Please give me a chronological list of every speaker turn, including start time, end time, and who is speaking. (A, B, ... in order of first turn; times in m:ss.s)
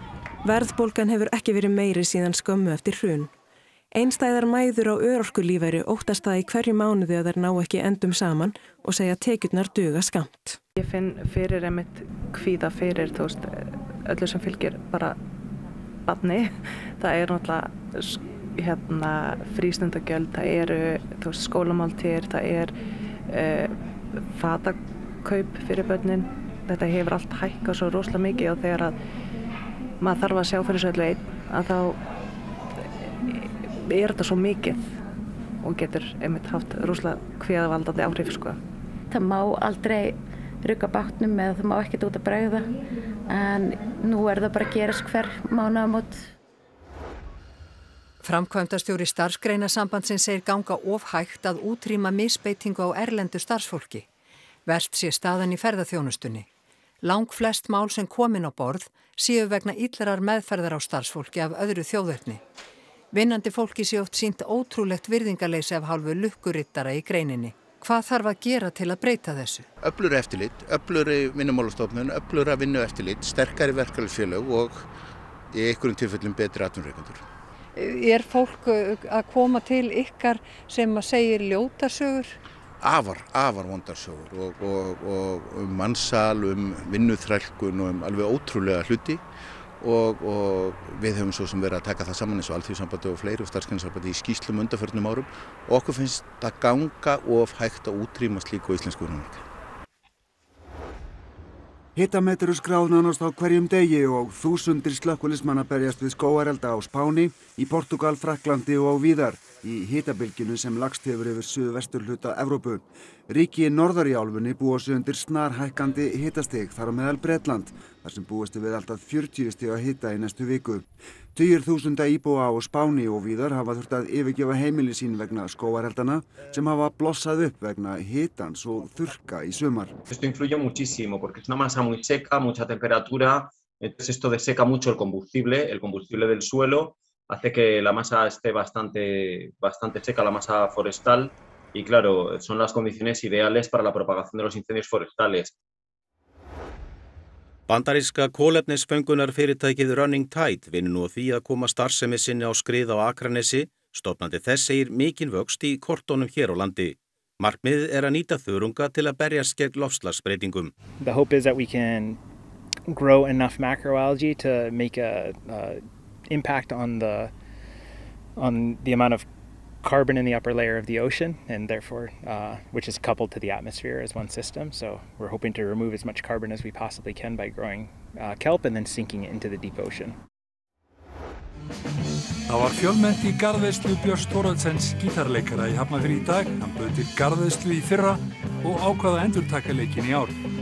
0:00.4-0:03.3 A
0:03.9-0:10.6 A
0:10.8-0:15.2 B
0:16.1-0:22.7 B
0:23.3-0:23.7 B
0:24.3-0:29.0 B
0:30.0-0:32.0 B
0:33.3-0:34.8 B
0:35.6-0:38.6 B
0:39.1-0:42.7 C
0:43.3-0:46.2 C
0:48.2-0:54.0 D
0:54.7-0:56.5 D
0:57.0-1:02.4 D
1:03.1-1:09.7 D
1:09.8-1:14.8 E
1:15.5-1:17.2 E
1:17.8-1:22.3 D
1:22.8-1:29.2 E
1:29.8-1:39.4 E
1:42.0-2:09.9 F
2:10.1-2:25.5 G
2:27.7-2:40.7 H
2:41.0-2:42.2 I
2:42.9-2:47.3 I
2:48.4-2:49.3 I
2:49.8-3:00.2 I
3:02.5-3:10.3 J